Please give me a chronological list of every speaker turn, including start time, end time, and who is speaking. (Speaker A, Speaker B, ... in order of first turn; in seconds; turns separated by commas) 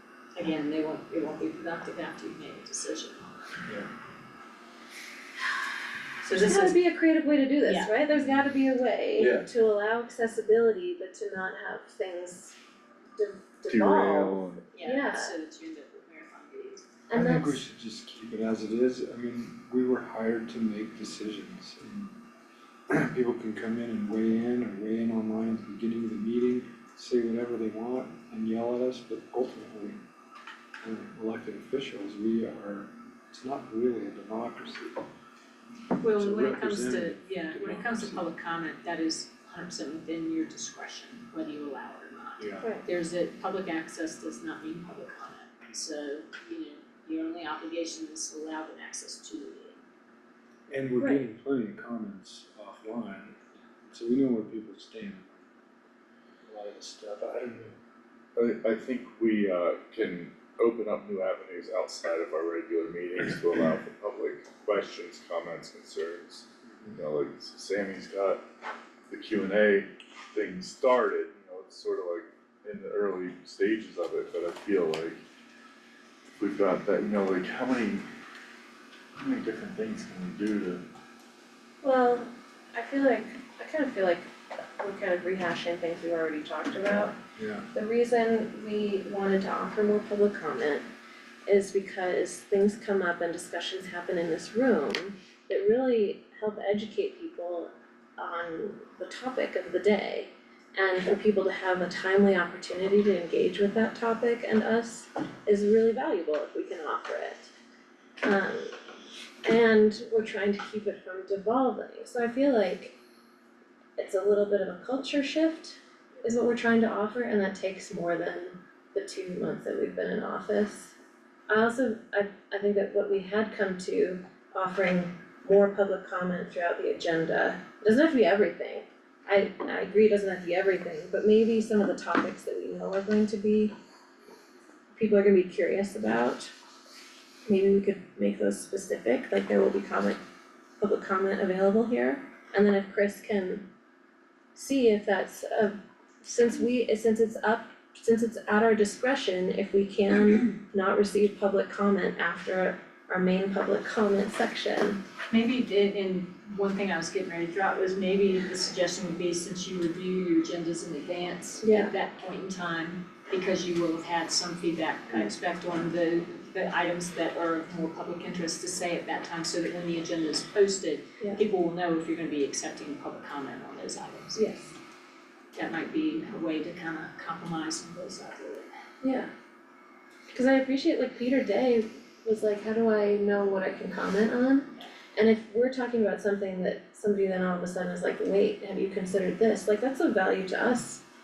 Speaker A: 0.3-3.4, Speaker A: 6.2-6.8, Speaker B: 6.3-12.5, Speaker A: 7.7-7.9, Speaker C: 9.2-9.5, Speaker B: 13.2-15.3, Speaker C: 13.7-14.7, Speaker A: 14.7-16.9, Speaker B: 17.1-17.6, Speaker D: 17.1-22.2, Speaker D: 22.9-30.0, Speaker D: 30.8-35.1, Speaker A: 36.0-49.8, Speaker D: 36.1-38.3, Speaker D: 42.4-42.7, Speaker B: 42.6-42.8, Speaker D: 50.7-55.5, Speaker B: 51.0-51.2, Speaker D: 56.4-57.7, Speaker C: 58.4-68.4, Speaker C: 69.1-75.2, Speaker C: 76.4-78.0, Speaker C: 79.2-80.8, Speaker B: 81.8-87.2, Speaker D: 87.3-87.7, Speaker B: 87.7-90.8, Speaker B: 91.5-107.5, Speaker B: 108.2-108.7, Speaker B: 109.4-113.0, Speaker B: 114.0-120.9, Speaker B: 121.5-133.7, Speaker B: 134.9-136.5, Speaker B: 137.5-140.2, Speaker B: 140.8-143.7, Speaker B: 144.5-155.0, Speaker A: 155.3-174.4, Speaker B: 161.6-161.9, Speaker B: 174.3-174.8, Speaker A: 175.5-178.7, Speaker B: 179.0-179.3, Speaker B: 180.3-191.0